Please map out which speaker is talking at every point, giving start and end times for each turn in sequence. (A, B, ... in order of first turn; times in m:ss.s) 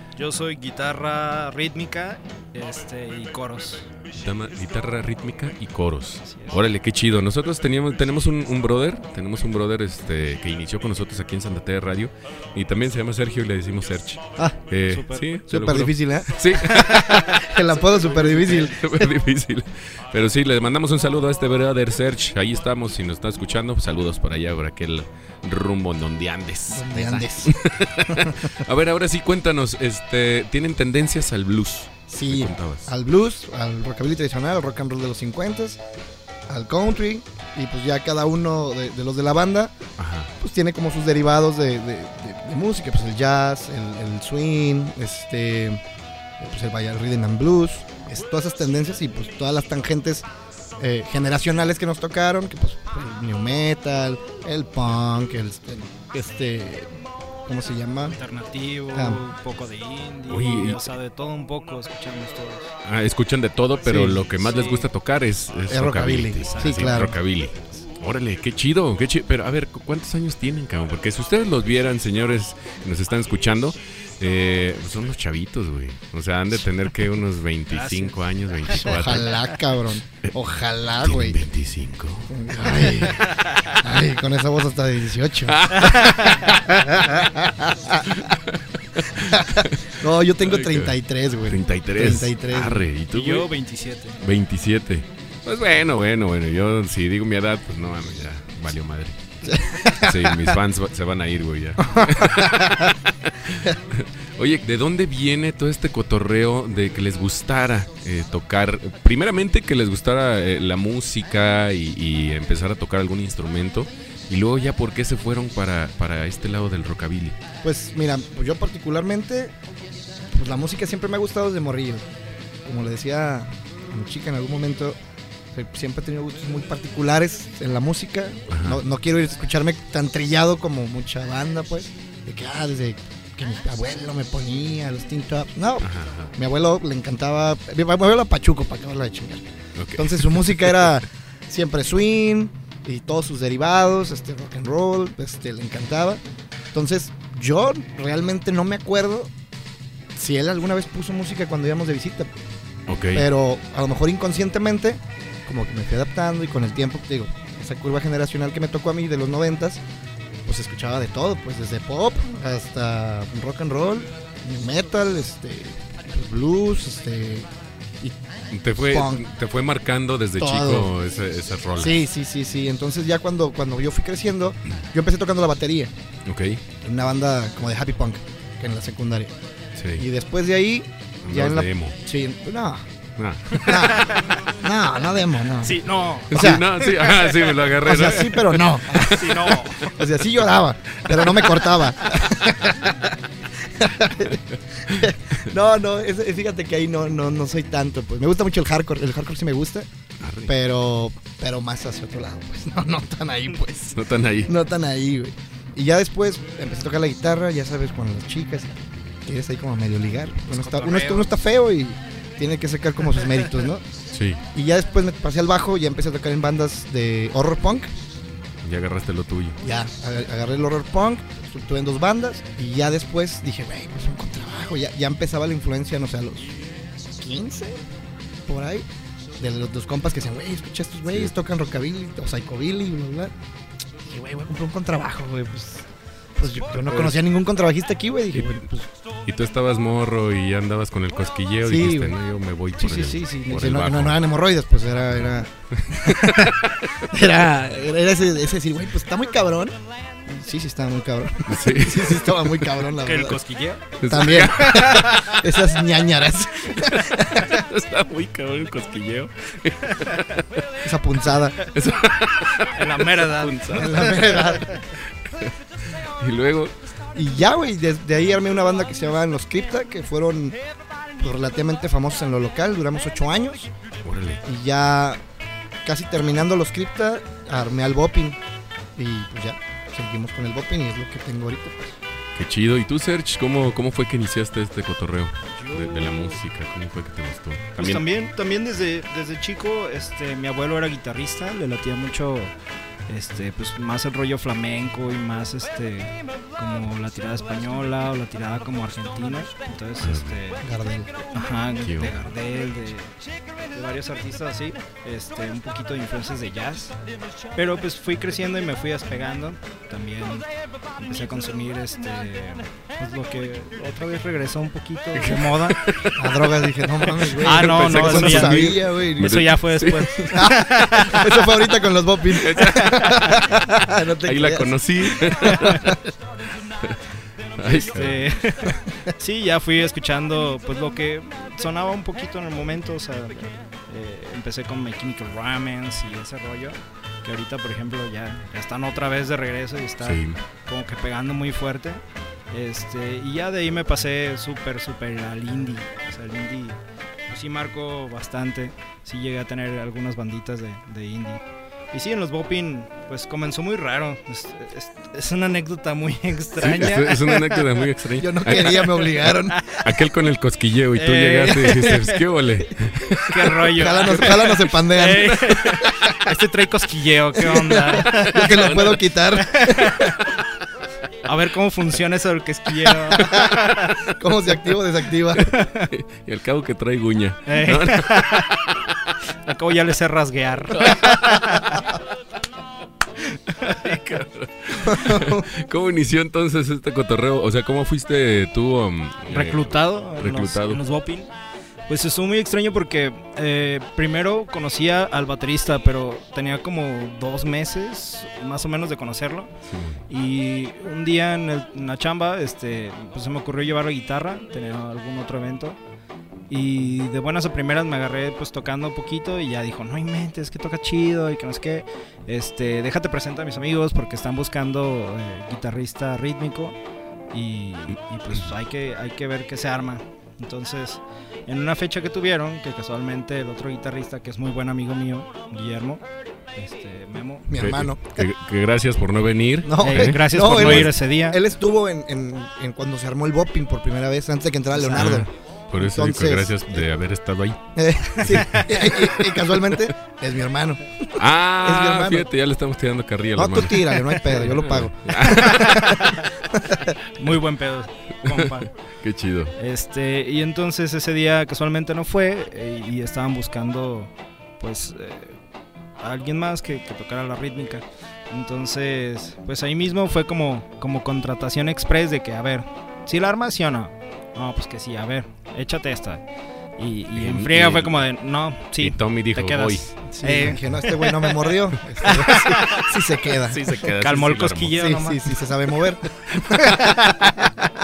0:00.2-0:03.9 A
0:04.1-0:17.3 B
0:06.2-0:06.6 A
0:14.9-0:15.3 A
0:15.5-0:19.1 C
0:16.7-0:17.2 A
0:18.2-0:18.5 A
0:18.5-0:32.9 B
0:26.7-0:28.5 C
0:32.1-0:35.8 C
0:36.5-0:39.8 C
0:40.0-0:40.3 B
0:40.4-0:45.8 C
0:46.4-0:50.3 C
0:50.8-0:56.9 C
0:57.4-0:58.2 C
0:58.1-1:02.7 A
0:58.9-0:59.2 C
1:00.3-1:00.8 B
1:02.8-1:19.4 B
1:03.8-1:04.4 C
1:04.4-1:04.9 A
1:05.7-1:07.2 C
1:06.4-1:07.1 A
1:17.7-1:19.0 A
1:18.8-1:21.4 C
1:21.0-1:22.4 B
1:22.3-1:28.2 C
1:23.2-1:23.7 A
1:25.5-1:26.6 B
1:25.9-1:26.5 A
1:28.1-1:29.9 B
1:29.1-1:32.8 C
1:30.4-1:30.9 B
1:31.5-1:33.5 B
1:33.1-1:34.2 A
1:34.2-1:39.2 B
1:39.4-1:40.6 C
1:39.8-1:57.4 B
1:41.8-1:43.0 C
1:57.6-1:59.5 C
2:00.3-2:02.1 C
2:02.6-2:05.0 C
2:05.5-2:26.2 C
2:08.5-2:08.8 B
2:15.8-2:16.3 B
2:19.8-2:21.0 B
2:26.7-2:29.3 C
2:30.2-2:32.3 C
2:32.9-2:33.3 B
2:33.1-2:39.8 C
2:40.4-2:47.5 C
2:48.5-2:51.9 B
2:48.8-2:49.3 C
2:50.4-2:50.9 C
2:51.8-2:55.9 C
2:56.3-2:56.6 B
2:56.8-2:59.3 C
2:59.8-3:00.0 B
3:00.0-3:02.9 C
3:01.2-3:02.0 B
3:03.2-3:04.2 B
3:03.6-3:07.2 C
3:03.7-3:04.2 A
3:05.6-3:07.6 A
3:06.3-3:09.1 B
3:07.8-3:19.9 C
3:08.9-3:10.0 A
3:11.1-3:11.6 B
3:20.2-3:20.5 B
3:20.5-3:33.8 C
3:23.9-3:24.5 B
3:30.5-3:31.3 A
3:34.1-3:34.4 B
3:34.5-3:37.9 C
3:38.6-3:39.6 B
3:39.6-3:47.8 C
3:48.5-3:48.8 C
3:49.4-3:53.3 C
3:51.1-3:51.3 B
3:54.0-3:58.9 C
3:56.5-3:57.1 B
3:58.3-3:58.6 B
3:59.3-4:04.2 B
4:01.6-4:02.2 C
4:02.8-4:13.4 C
4:05.8-4:06.6 B
4:11.5-4:12.8 B
4:13.0-4:13.9 A
4:14.0-4:15.0 B
4:14.0-4:17.6 C
4:14.5-4:15.4 A
4:17.3-4:20.9 B
4:20.8-4:21.6 C
4:21.6-4:26.7 B
4:22.7-4:24.4 A
4:23.7-4:24.7 C
4:27.1-4:30.6 C
4:31.2-4:33.7 C
4:34.0-4:34.4 B
4:34.4-4:35.2 C
4:35.8-4:38.4 C
4:39.0-4:42.0 C
4:42.4-4:48.0 B
4:45.6-4:46.4 A
4:47.8-4:52.5 A
4:53.1-5:00.6 A
5:00.0-5:00.4 B
5:00.6-5:01.1 C
5:01.3-5:03.2 A
5:01.8-5:02.3 B
5:03.7-5:07.0 A
5:07.5-5:10.4 A
5:11.0-5:15.8 A
5:15.1-5:16.3 B
5:16.1-5:19.4 C
5:17.0-5:20.3 B
5:17.4-5:21.4 A
5:20.3-5:26.0 C
5:22.3-5:23.4 B
5:22.6-5:23.4 A
5:24.2-5:26.0 B
5:25.4-5:25.8 A
5:27.6-5:28.3 B
5:27.6-5:46.8 A
5:40.0-5:40.4 B
5:47.3-5:57.7 A
5:56.6-6:03.7 B
5:58.2-5:59.6 C
5:59.5-5:59.9 A
6:00.9-6:02.2 A
6:03.2-6:10.2 A
6:03.7-6:06.1 C
6:07.4-6:10.2 C
6:08.1-6:09.0 B
6:11.2-6:13.9 A
6:13.2-6:15.5 C
6:13.2-6:14.0 B
6:15.4-6:15.9 A
6:15.9-6:18.8 B
6:17.5-6:18.6 A
6:19.4-6:21.9 A
6:20.7-6:21.6 B
6:23.2-6:24.0 A
6:23.6-6:30.8 B
6:24.8-6:25.4 C
6:29.3-6:31.3 A
6:31.9-6:39.5 A
6:39.7-6:40.0 B
6:40.1-6:45.8 A
6:46.5-6:56.8 A
6:57.3-7:06.0 A
7:06.5-7:07.5 A
7:07.5-7:08.3 C
7:07.5-7:10.9 B
7:09.6-7:16.9 C
7:09.8-7:11.4 A
7:14.8-7:15.3 A
7:14.9-7:17.6 B
7:17.8-7:22.3 C
7:18.1-7:19.5 B
7:18.3-7:18.7 A
7:21.2-7:26.0 B
7:23.4-7:27.0 C
7:25.3-7:26.2 A
7:27.1-7:28.7 A
7:28.2-7:29.5 B
7:29.6-7:35.4 A
7:36.0-7:46.2 A
7:46.8-7:52.9 A
7:47.1-7:48.0 B
7:48.8-7:49.9 B
7:50.1-7:53.7 C
7:53.4-7:54.8 B
7:54.0-7:55.4 A
7:54.8-7:57.2 C
7:56.3-7:56.5 B
7:56.6-7:57.0 A